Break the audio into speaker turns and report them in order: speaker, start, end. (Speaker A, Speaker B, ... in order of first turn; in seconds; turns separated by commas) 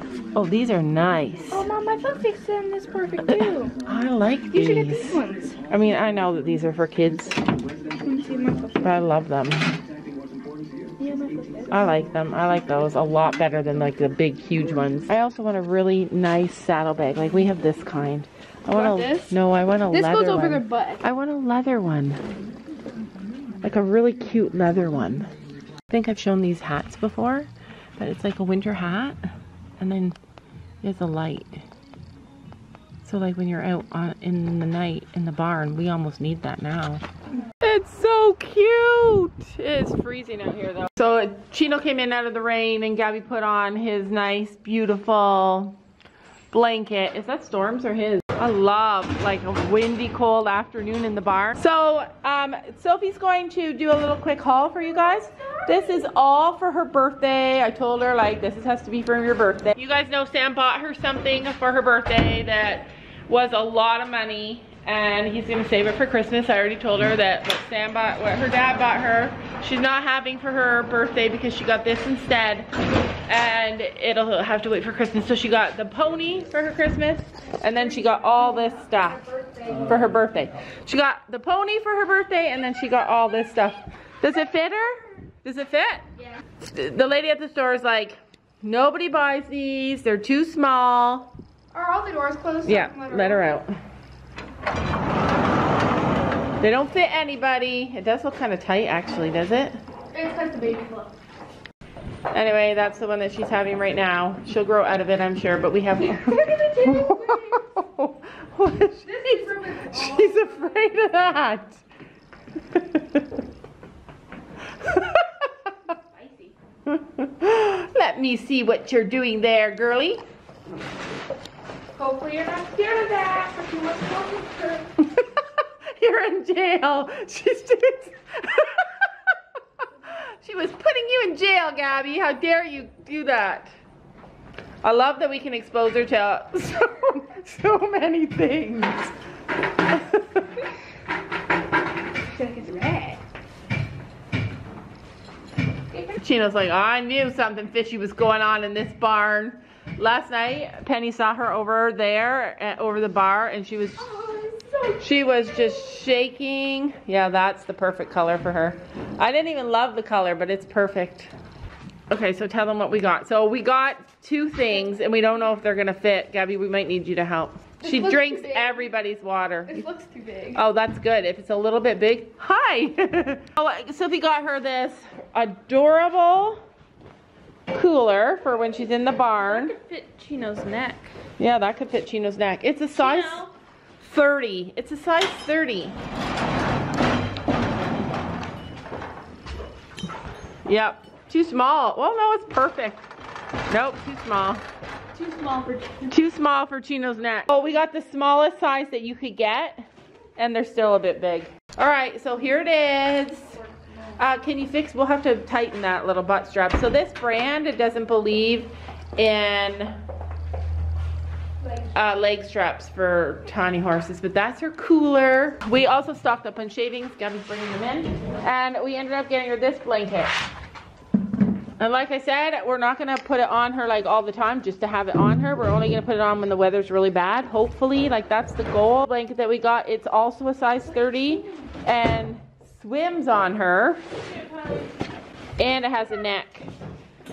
Speaker A: 0.3-1.7, Speaker B: 1.5-3.7, Speaker A: 3.2-7.4, Speaker B: 4.5-5.6, Speaker B: 8.0-8.9, Speaker A: 8.8-9.8, Speaker B: 11.0-11.8, Speaker A: 11.7-22.2, Speaker B: 18.7-19.4, Speaker B: 19.9-21.0, Speaker A: 23.6-25.3, Speaker A: 25.9-29.2, Speaker A: 29.8-30.2, Speaker A: 30.8-31.6, Speaker A: 33.0-37.0, Speaker A: 37.6-45.8, Speaker A: 46.5-72.7, Speaker A: 73.3-86.0, Speaker B: 79.3-79.8, Speaker A: 86.6-91.3, Speaker B: 91.7-93.6, Speaker A: 92.6-93.8, Speaker A: 96.6-99.8, Speaker B: 100.1-101.1, Speaker A: 102.3-111.8, Speaker B: 106.0-107.7, Speaker B: 109.0-110.7, Speaker A: 112.7-113.2, Speaker A: 114.8-115.3, Speaker B: 115.9-116.5, Speaker A: 116.9-120.2, Speaker B: 122.0-124.9, Speaker A: 125.0-125.4, Speaker A: 125.9-129.1, Speaker A: 130.1-133.7, Speaker A: 134.8-139.1, Speaker A: 139.9-140.4, Speaker B: 142.3-143.2, Speaker A: 146.2-154.1, Speaker B: 154.1-155.0, Speaker A: 155.0-161.3, Speaker A: 162.1-169.8, Speaker B: 167.8-168.8, Speaker B: 169.7-170.6, Speaker A: 170.5-176.6, Speaker A: 177.7-179.8, Speaker B: 179.4-181.1, Speaker A: 181.4-183.4, Speaker B: 183.0-183.5, Speaker A: 184.0-185.9, Speaker A: 190.6-193.0, Speaker A: 193.7-194.6, Speaker B: 195.1-196.1, Speaker A: 196.1-203.6, Speaker A: 204.2-210.0, Speaker A: 211.9-220.3, Speaker A: 221.8-234.0, Speaker A: 235.6-236.7